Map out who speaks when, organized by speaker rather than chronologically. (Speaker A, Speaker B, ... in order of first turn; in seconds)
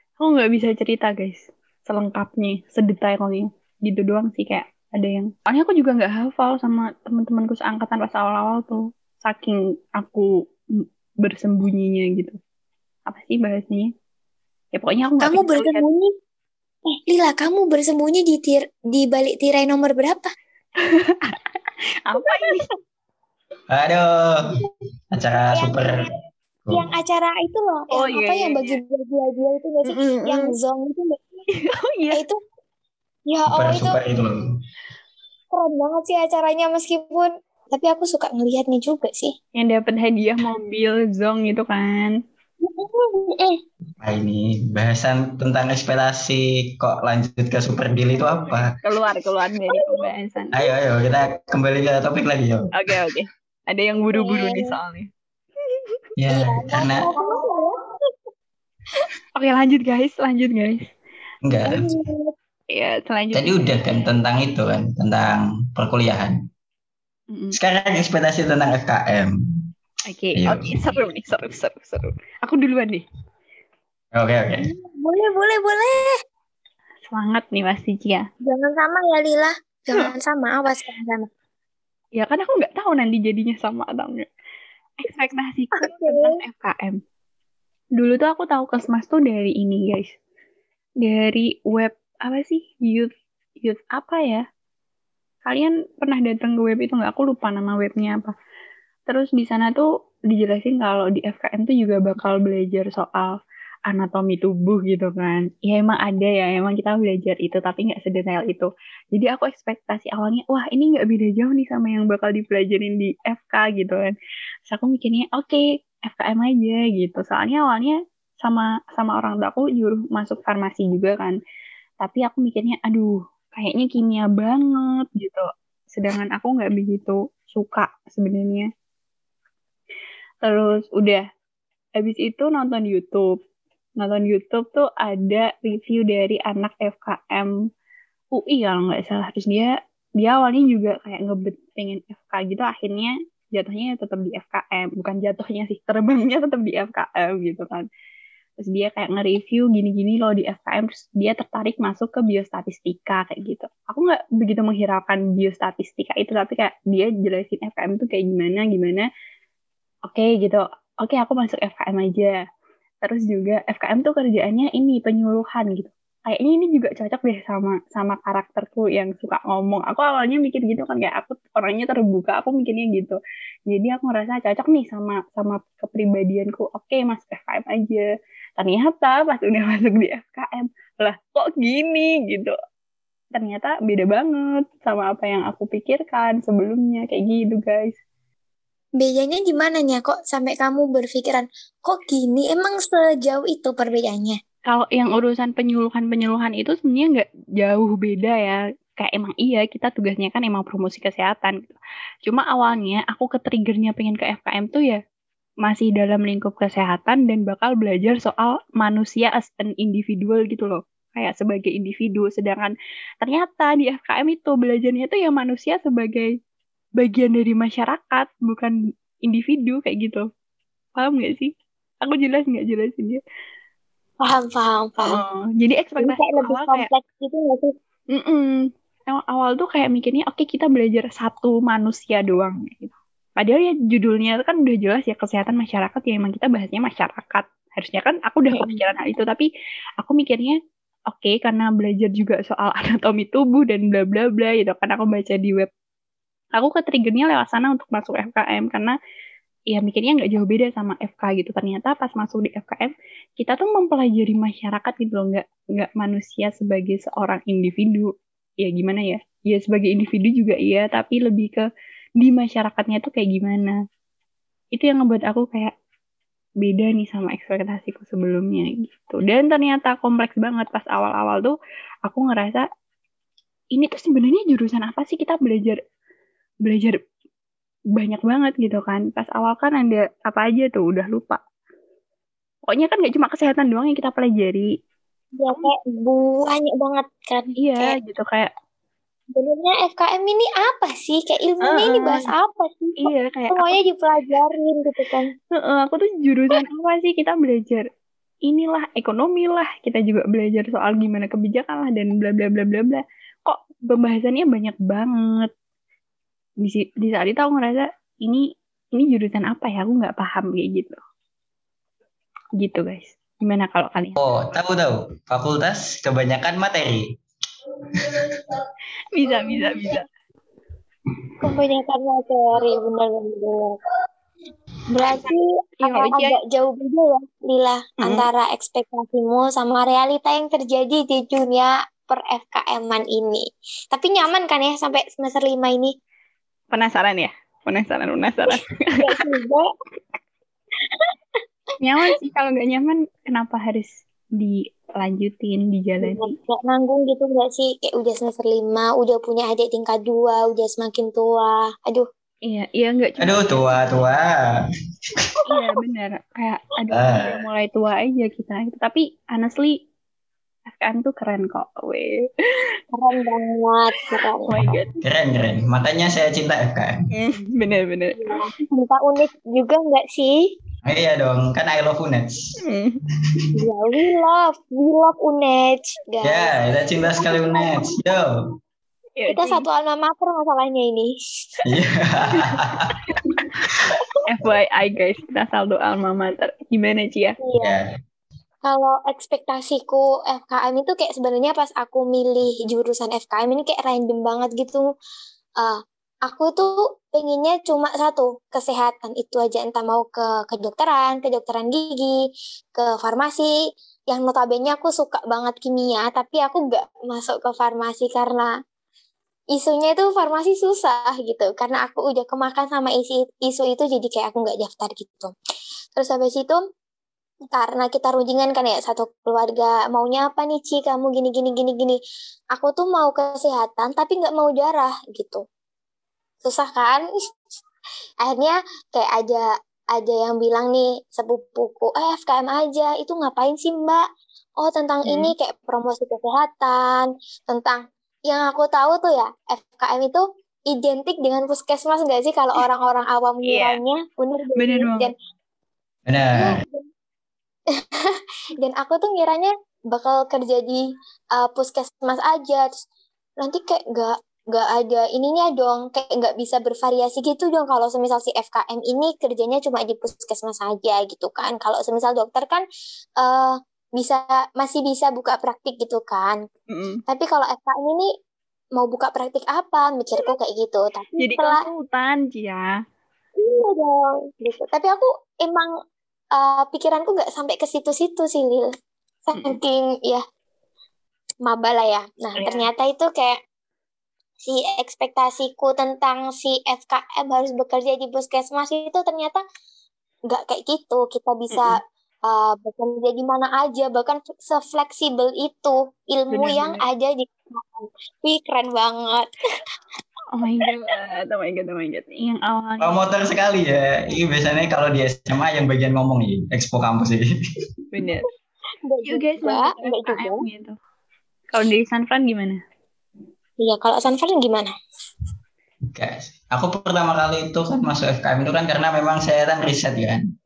Speaker A: 0.2-12.4, 13.1-13.9, 14.7-15.9, 20.8-21.4, 22.1-22.7, 27.9-28.8, 29.9-30.5, 31.5-32.2, 39.6-42.1, 48.8-50.5, 52.7-55.1, 59.4-60.9, 62.7-63.9, 70.1-73.0, 77.1-78.2, 82.2-84.3, 85.0-87.0, 88.0-90.1, 91.0-93.1, 93.6-94.5, 95.5-98.3, 99.1-103.3, 103.9-114.2, 114.7-121.4, 122.0-128.7, 130.4-131.2, 132.0-133.4, 134.0-137.5, 138.3-147.9, 148.6-159.1, 160.1-162.4, 163.0-173.2, 173.7-178.1, 178.6-182.6, 183.3-188.0, 194.7-205.0, 205.6-216.3, 217.0-220.2, 221.0-223.2, 225.0-226.9, 228.1-239.5, 240.0-240.6, 241.1-245.7, 246.5-249.0, 249.7-261.7, 262.2-263.8, 264.8-265.7, 266.6-272.6, 273.8-275.8, 276.6-277.0, 278.0-281.4, 282.7-284.7, 287.6-288.5, 291.6-292.3, 293.0-293.8, 295.5-297.9, 298.5-305.5, 306.6-311.0, 312.6-314.2, 319.1-320.1, 324.9-326.4, 328.0-328.3, 336.7-339.3, 341.8-346.4, 352.5-354.1, 355.5-359.8, 360.7-362.7, 364.1-365.0, 367.1-368.4, 372.6-373.0, 379.2-379.6, 382.3-383.3, 384.2-387.4, 435.1-435.3, 443.4-443.8, 444.6-445.1, 466.7-467.0, 471.2-472.7, 482.4-482.7, 491.5-491.8, 496.3-496.8, 500.3-503.1, 507.9-508.3, 509.1-510.8, 511.5-512.6
Speaker B: 15.2-16.1, 16.9-20.3, 22.3-22.6, 25.5-26.0, 26.7-31.2, 32.1-32.4, 33.3-34.0, 35.5-39.4, 42.6-43.6, 54.0-54.7, 56.3-57.8, 61.7-62.3, 74.6-76.2, 78.4-81.3, 85.8-86.3, 189.0-194.4, 224.2-225.2, 226.0-227.8, 238.5-238.8, 285.4-288.0, 289.3-295.3, 321.4-323.8, 324.9-336.0, 339.0-339.7, 346.0-352.1, 362.9-364.5, 368.2-370.5, 373.6-377.9, 379.3-381.1, 387.4-387.8, 388.6-394.9, 395.6-402.2, 402.8-403.5, 404.1-408.5, 409.5-415.3, 415.9-416.6, 417.5-422.0, 422.5-425.4, 426.4-427.0, 428.2-434.0, 434.6-445.1, 446.4-446.9, 447.7-450.8, 451.4-452.8, 453.4-462.6, 463.2-466.4, 467.1-468.1, 468.8-471.6, 473.4-475.7, 476.3-478.7, 479.3-480.2, 481.4-483.4, 484.4-489.4, 490.3-499.3, 508.8-510.4, 513.6-514.7
Speaker C: 23.7-24.6, 25.1-26.0, 33.5-34.5, 44.0-48.8, 50.5-52.7, 56.2-57.1, 61.5-61.9, 63.3-66.4, 67.5-69.3, 70.4-70.7, 74.1-74.7, 314.2-317.1, 317.9-318.4, 353.2-354.6, 355.2-355.4, 356.9-357.4, 365.0-367.0, 370.9-372.5, 376.2-378.3, 381.6-383.1, 383.6-384.0, 387.6-387.9, 446.1-446.6, 502.8-507.3, 515.9-520.2